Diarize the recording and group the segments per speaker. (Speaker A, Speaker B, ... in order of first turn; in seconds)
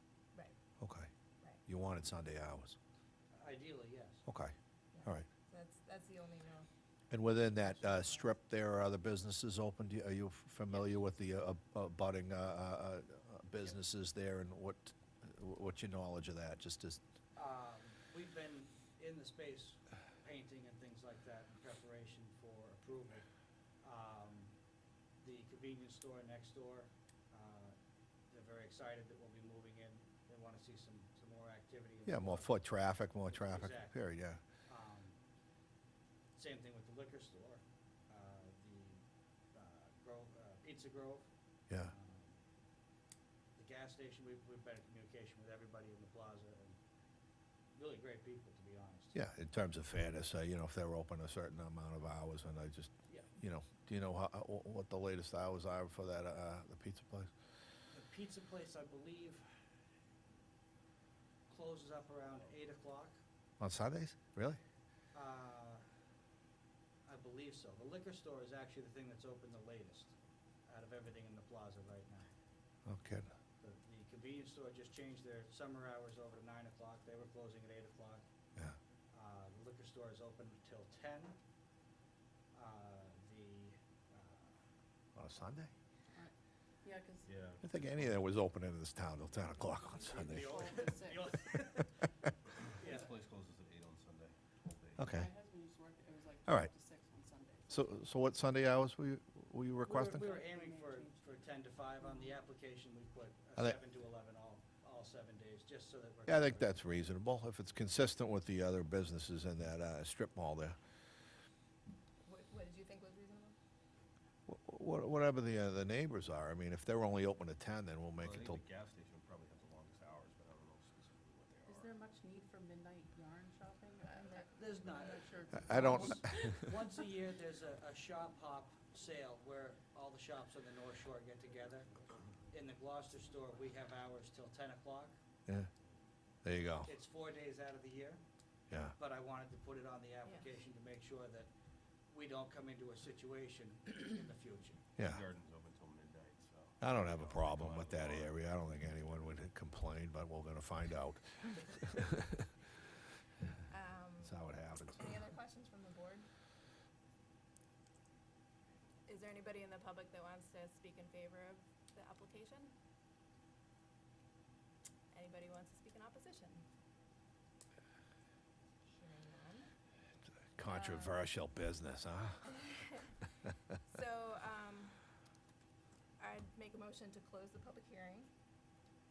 Speaker A: 0.8-1.1, 1.6-2.8, 4.3-5.3, 7.1-17.0, 32.1-34.4, 49.1-57.3, 63.6-64.6, 72.9-73.3, 85.2-85.7, 87.6-90.8, 95.0-95.3, 97.7-100.3, 106.3-110.8, 114.5-118.6, 125.6-126.7, 136.4-136.9, 145.0-145.2, 146.8-152.5, 154.2-155.1, 170.6-172.7
Speaker B: 3.3-4.2, 17.4-23.2, 23.8-24.5, 25.2-27.8, 28.3-32.6, 33.3-34.0, 34.7-35.2, 36.4-39.0, 39.5-41.3, 41.8-42.4, 43.6-46.8, 47.8-49.2, 57.9-59.5, 61.5-63.2, 65.1-65.8, 67.1-70.1, 70.7-72.3, 73.6-78.2, 79.1-81.4, 82.5-84.6, 89.9-92.0, 92.8-93.1, 99.8-106.8, 124.5-135.1, 136.8-138.2, 139.0-141.5, 142.1-144.8
Speaker C: 4.9-6.7, 7.7-8.3, 112.2-113.6, 153.7-154.4, 155.0-156.3, 159.1-162.7, 165.1-166.7, 168.8-169.7, 170.7-171.2, 172.5-173.2, 173.8-175.0, 176.2-178.3
Speaker D: 86.1-87.3, 90.2-91.3, 95.1-98.0, 100.2-102.3, 121.7-126.6
Speaker E: 87.2-88.2, 92.7-95.1, 118.2-121.9, 145.0-148.5